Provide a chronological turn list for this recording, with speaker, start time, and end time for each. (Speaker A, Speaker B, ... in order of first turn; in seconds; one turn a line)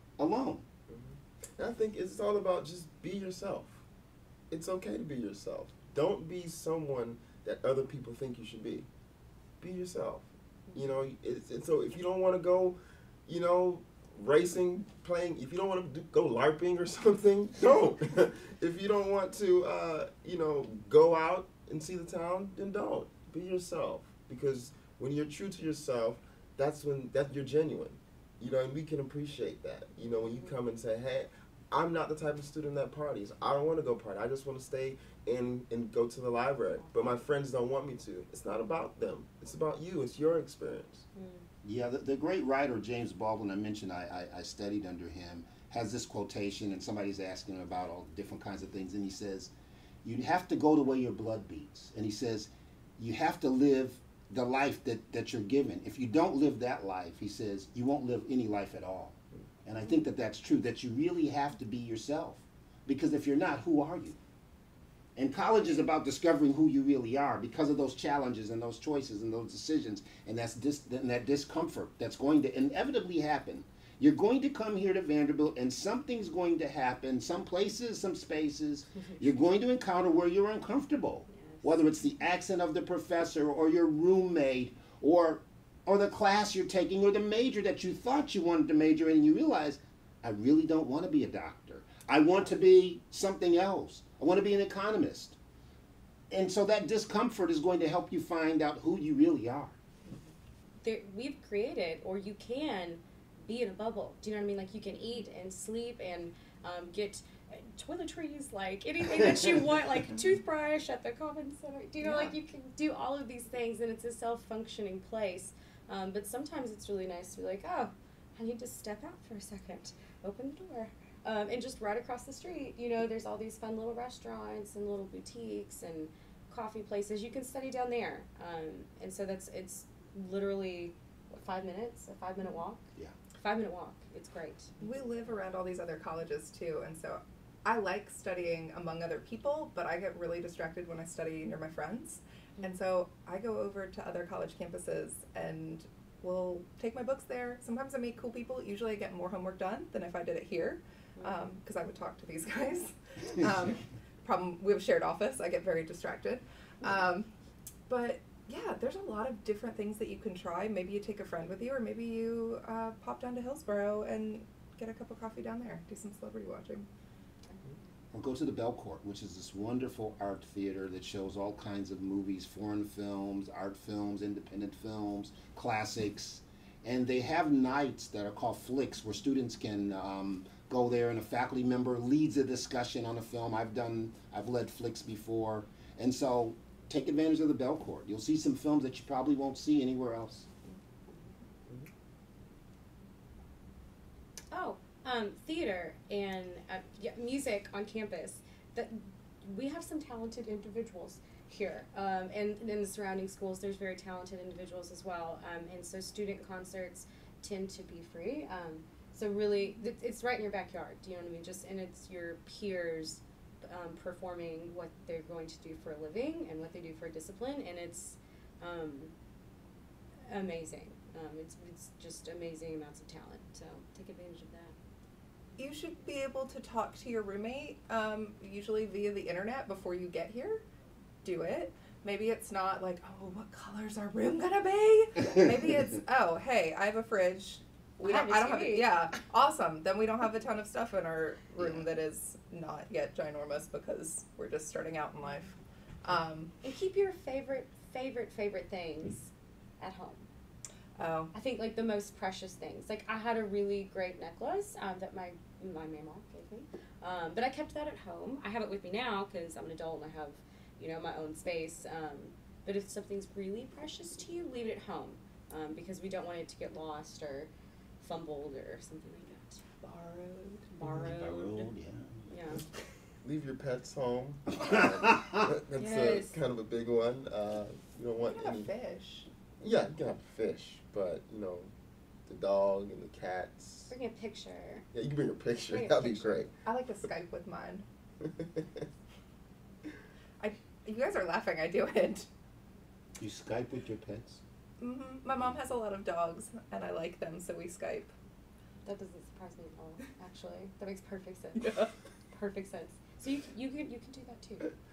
Speaker A: 0.2-0.6
Speaker B: 0.9-3.8
Speaker B: 4.5-8.9
Speaker B: 9.6-41.1
Speaker C: 36.8-37.1
Speaker C: 41.1-41.5
Speaker A: 41.6-49.5
Speaker A: 50.0-64.2
Speaker A: 65.2-95.4
Speaker C: 81.4-81.7
Speaker A: 96.3-99.8
Speaker C: 100.8-132.8
Speaker C: 133.4-134.7
Speaker D: 134.8-157.3
Speaker D: 157.9-166.9
Speaker A: 168.1-190.5
Speaker C: 194.5-219.1
Speaker C: 220.3-224.7
Speaker D: 225.6-230.6
Speaker D: 231.2-246.5
Speaker C: 238.0-238.9
Speaker A: 241.6-241.8
Speaker C: 246.6-250.3
Speaker D: 251.0-251.3
Speaker C: 251.3-267.5
Speaker C: 268.0-269.6
Speaker D: 269.8-270.7
Speaker C: 270.7-271.6
Speaker A: 270.8-272.2
Speaker C: 272.3-272.6
Speaker B: 273.2-278.7
Speaker A: 274.5-275.5
Speaker C: 275.8-276.4
Speaker D: 278.2-279.3
Speaker B: 279.6-281.7
Speaker B: 282.3-283.9
Speaker C: 283.9-284.9
Speaker B: 284.9-286.5
Speaker C: 285.7-286.4
Speaker D: 286.6-287.9
Speaker B: 288.2-288.9
Speaker D: 290.4-292.3
Speaker A: 293.2-294.4
Speaker D: 294.8-298.1
Speaker C: 298.9-304.7